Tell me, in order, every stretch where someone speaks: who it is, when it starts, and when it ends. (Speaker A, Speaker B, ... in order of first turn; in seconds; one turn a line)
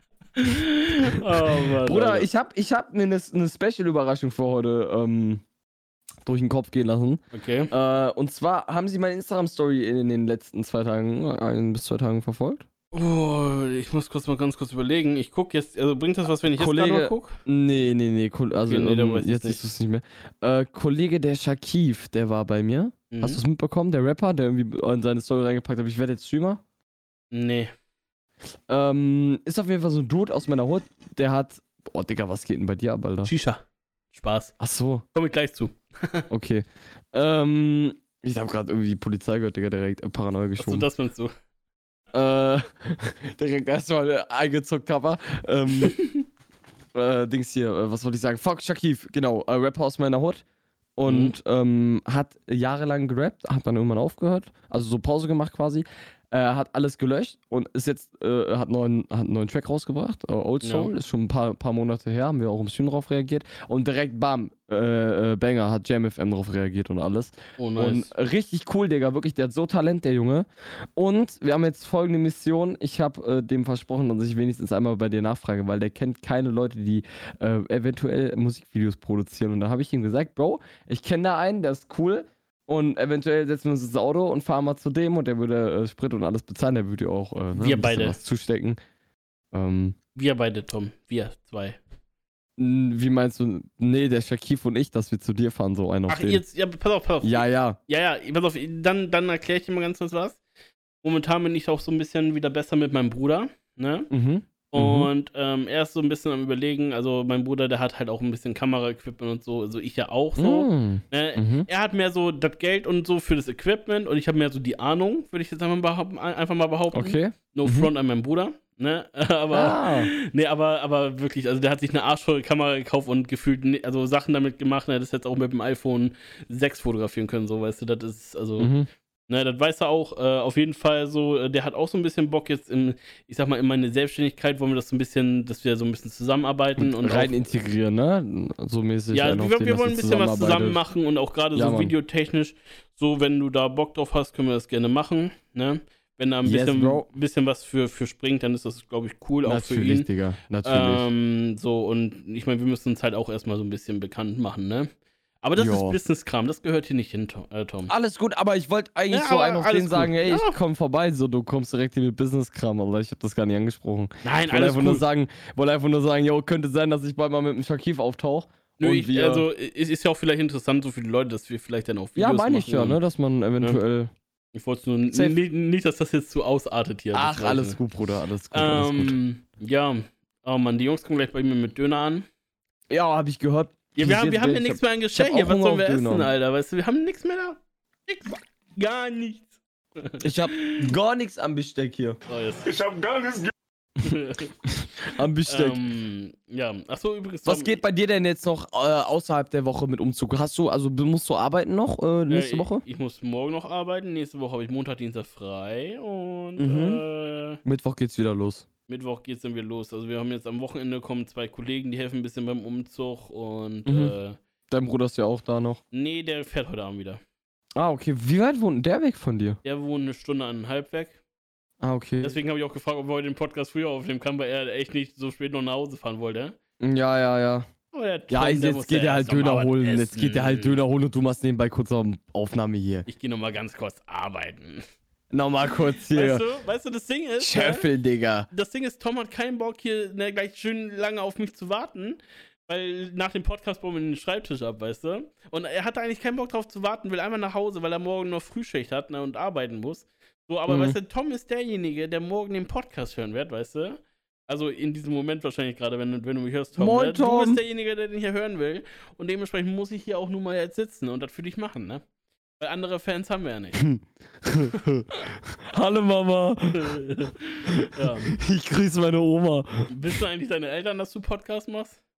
Speaker A: 0.3-2.3
Speaker B: 1.1-5.4
Speaker B: 6.2-12.6
Speaker A: 7.3-7.7
Speaker A: 12.9-17.4
Speaker B: 16.5-26.6
Speaker A: 18.7-19.6
Speaker A: 23.1-23.4
Speaker A: 27.3-27.7
Speaker B: 28.7-33.3
Speaker A: 33.2-33.6
Speaker A: 34.1-34.5
Speaker B: 34.6-35.0
Speaker A: 35.1-36.2
Speaker B: 36.3-40.9
Speaker A: 40.6-41.3
Speaker B: 42.1-46.0
Speaker A: 45.8-46.2
Speaker B: 46.9-50.4
Speaker B: 51.0-88.8
Speaker A: 51.0-51.4
Speaker A: 60.6-60.9
Speaker A: 67.6-68.1
Speaker A: 87.6-88.2
Speaker B: 89.5-90.0
Speaker A: 90.1-91.8
Speaker B: 92.6-96.4
Speaker A: 96.1-100.4
Speaker B: 97.2-97.8
Speaker A: 101.0-104.1
Speaker B: 104.1-105.1
Speaker A: 104.7-128.7
Speaker B: 110.4-111.7
Speaker B: 116.9-117.9
Speaker B: 119.5-120.1
Speaker B: 128.6-128.9
Speaker A: 129.3-137.3
Speaker B: 136.8-140.8
Speaker A: 139.1-150.1
Speaker B: 141.5-141.9
Speaker B: 146.4-147.1
Speaker B: 149.4-151.1
Speaker A: 150.6-154.9
Speaker A: 155.4-157.9
Speaker B: 155.6-156.0
Speaker B: 157.9-169.4
Speaker A: 159.1-160.6
Speaker A: 164.2-165.0
Speaker A: 168.8-173.0
Speaker B: 172.2-174.1
Speaker A: 174.5-177.8
Speaker B: 175.1-175.4
Speaker B: 177.1-179.2
Speaker A: 178.5-182.2
Speaker B: 182.9-186.3
Speaker A: 183.9-190.9
Speaker B: 190.2-192.2
Speaker A: 192.3-193.0
Speaker A: 194.0-194.5
Speaker B: 195.1-195.8
Speaker A: 195.4-197.8
Speaker B: 197.4-202.8
Speaker A: 202.3-207.6
Speaker B: 206.6-207.0
Speaker B: 207.6-208.7
Speaker A: 208.9-214.4
Speaker B: 213.8-214.1
Speaker B: 214.7-215.8
Speaker A: 215.9-217.2
Speaker B: 217.8-219.6
Speaker A: 219.6-221.2
Speaker B: 221.8-222.3
Speaker A: 222.2-226.5
Speaker B: 226.8-227.7
Speaker A: 227.9-230.8
Speaker B: 228.3-233.1
Speaker A: 233.1-234.8
Speaker B: 235.3-236.4
Speaker A: 236.1-237.8
Speaker B: 237.4-238.5
Speaker A: 238.5-262.0
Speaker B: 250.7-251.0
Speaker B: 256.7-257.6
Speaker A: 262.6-263.8
Speaker B: 263.8-266.9
Speaker A: 266.7-268.3
Speaker B: 267.7-269.8
Speaker A: 269.9-272.0